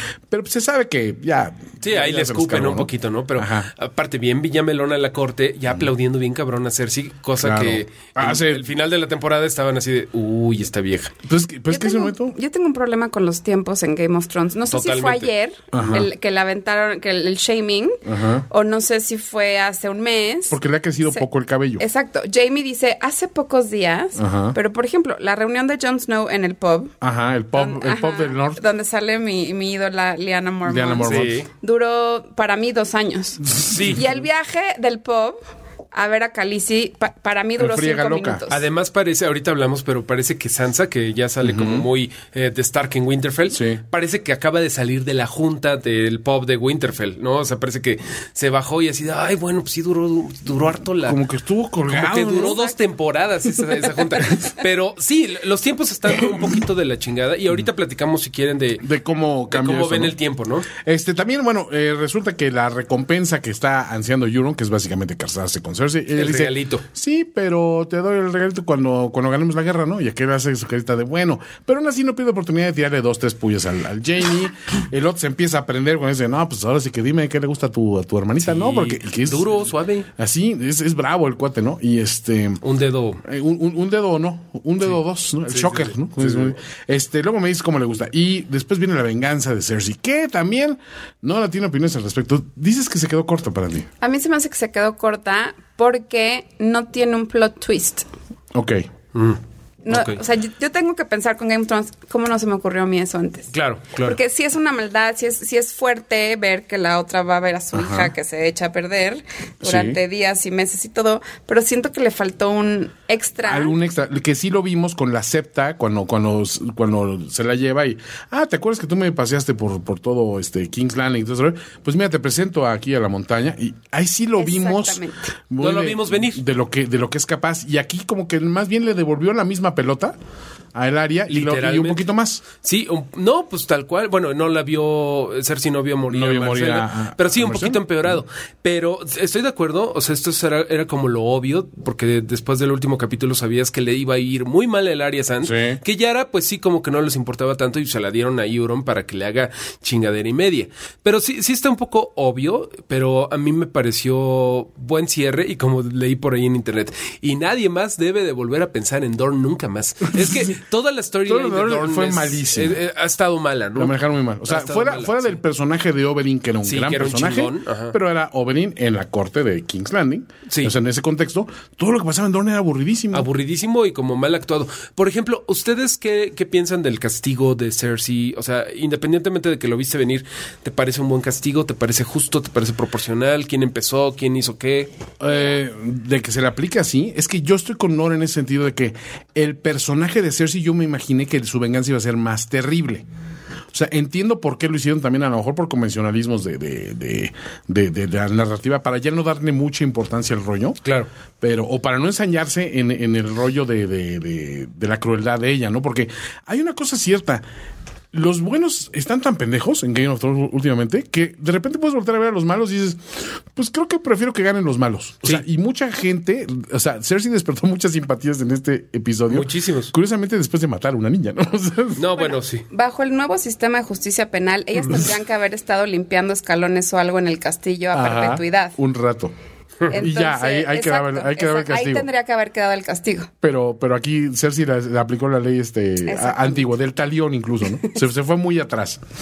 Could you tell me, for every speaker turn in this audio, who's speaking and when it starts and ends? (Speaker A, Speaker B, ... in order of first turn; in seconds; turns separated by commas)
Speaker A: 0.3-3.7, Speaker B: 1.8-11.1, Speaker A: 7.4-8.7, Speaker A: 11.2-12.3, Speaker C: 11.7-20.6, Speaker B: 14.7-16.0, Speaker A: 15.7-16.1, Speaker A: 18.0-18.4, Speaker A: 20.5-21.8, Speaker C: 21.8-26.9, Speaker A: 24.2-24.6, Speaker A: 27.0-28.6, Speaker C: 27.5-35.4, Speaker A: 30.6-31.3, Speaker B: 31.0-31.5, Speaker A: 33.5-34.0, Speaker B: 33.7-34.1, Speaker C: 35.9-38.6, Speaker A: 37.6-38.5, Speaker B: 38.5-51.2, Speaker A: 41.4-41.9, Speaker A: 43.5-43.8, Speaker A: 51.0-52.7, Speaker B: 51.9-58.8, Speaker A: 58.8-60.2, Speaker B: 59.5-60.7, Speaker A: 60.7-82.6, Speaker B: 66.1-66.8, Speaker B: 78.4-80.1, Speaker B: 82.6-83.2, Speaker A: 83.2-93.9, Speaker B: 85.5-86.6, Speaker C: 94.0-98.0, Speaker A: 98.5-98.9, Speaker B: 99.1-100.2, Speaker C: 99.8-103.5, Speaker B: 103.5-104.2, Speaker C: 104.0-113.8, Speaker A: 107.7-108.1, Speaker A: 109.6-110.0, Speaker A: 113.4-130.2, Speaker C: 124.4-125.3, Speaker B: 125.6-126.4, Speaker A: 130.7-132.4, Speaker B: 131.3-165.4, Speaker A: 136.1-138.2, Speaker A: 145.4-145.8, Speaker A: 160.1-160.6, Speaker A: 161.2-162.8, Speaker A: 163.8-173.3, Speaker B: 166.6-168.0, Speaker B: 170.5-170.7, Speaker B: 173.1-184.9, Speaker A: 185.2-193.0, Speaker A: 193.7-200.8, Speaker B: 200.8-201.1, Speaker A: 201.4-207.4, Speaker A: 208.1-222.1, Speaker B: 219.3-219.9, Speaker B: 222.0-222.6, Speaker C: 222.7-228.8, Speaker A: 227.9-229.3, Speaker A: 229.9-232.1, Speaker C: 229.9-233.3, Speaker A: 233.4-239.0, Speaker C: 236.1-236.6